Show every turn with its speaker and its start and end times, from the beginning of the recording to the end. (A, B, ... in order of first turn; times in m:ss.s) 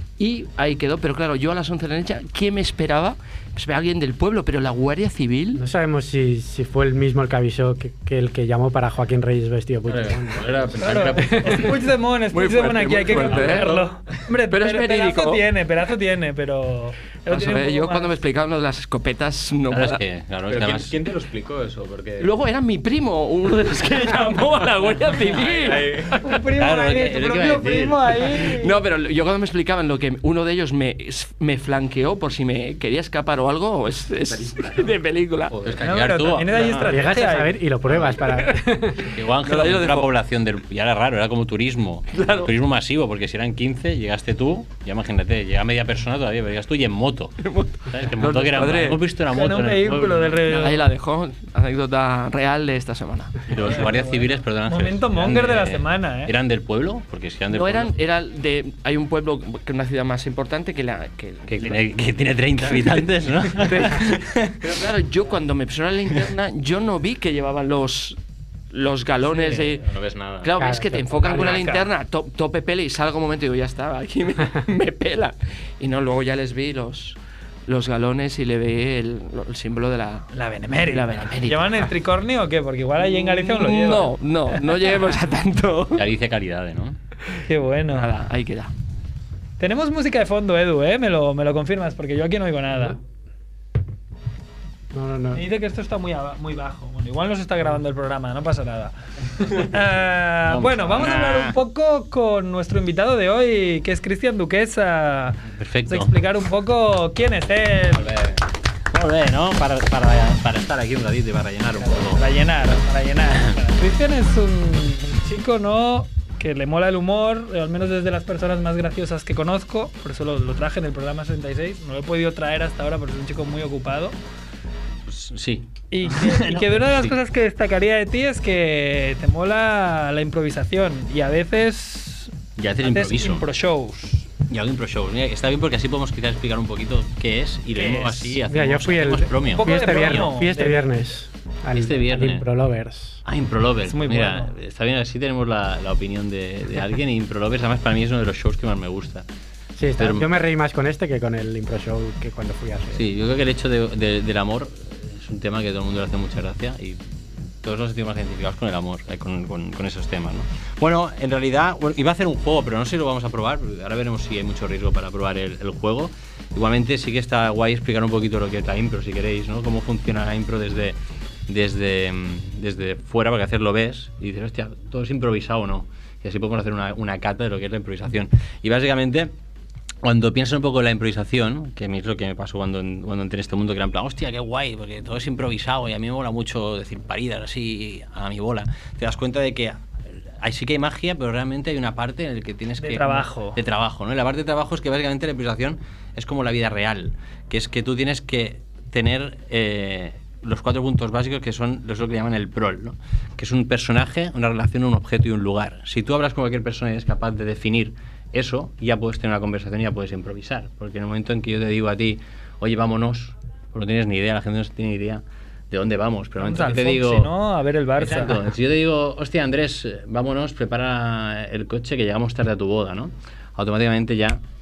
0:00.2-0:05.6 A
0:05.5-0:10.7 B
0:09.9-0:11.4 C
0:10.4-0:11.6 D
0:10.8-0:18.1 E
0:12.3-0:13.9 A
0:13.0-0:13.6 D
0:13.3-0:13.9 C
0:14.5-0:15.4 A
0:17.3-0:20.0 A
0:19.7-0:20.9 D
0:20.5-0:22.3 C
0:22.2-0:26.0 A
0:25.2-0:26.1 C
0:26.1-0:28.7 E
0:26.5-0:28.2 D
0:28.4-0:35.6 A
0:35.5-0:36.9 D
0:35.8-0:37.6 E
0:36.9-0:39.1 B
0:39.1-0:50.4 D
0:39.4-0:40.1 A
0:42.1-0:42.5 A
0:47.4-0:49.0 A
0:49.3-0:50.8 E
0:50.4-0:53.8 A
0:53.5-0:57.9 D
0:53.6-0:56.3 E
0:57.5-1:01.8 A
1:01.5-1:04.2 D
1:02.6-1:08.2 A
1:08.7-1:21.9 A
1:09.3-1:10.4 C
1:10.6-1:11.3 B
1:11.3-1:11.9 E
1:20.3-1:24.1 E
1:23.0-1:26.0 A
1:26.0-1:27.0 D
1:27.5-1:28.1 E
1:27.9-1:28.7 A
1:29.6-1:33.0 E
1:34.9-1:35.4 B
1:35.3-1:48.1 E
1:40.5-1:41.6 D
1:45.6-1:46.1 D
1:48.9-1:52.2 D
1:51.8-2:04.1 E
2:05.1-2:07.1 D
2:05.9-2:14.3 E
2:12.6-2:13.4 D
2:14.5-2:20.3 D
2:17.7-2:18.3 E
2:18.5-2:23.2 B
2:19.5-2:20.8 E
2:21.7-2:22.5 D
2:23.2-2:29.2 D
2:23.9-2:24.5 E
2:29.8-2:33.0 B
2:30.0-2:30.3 D
2:32.9-2:51.0 D
2:51.5-2:59.3 D
3:00.0-3:37.3 D
3:12.8-3:13.6 E
3:36.4-3:38.4 E
3:38.0-3:44.4 D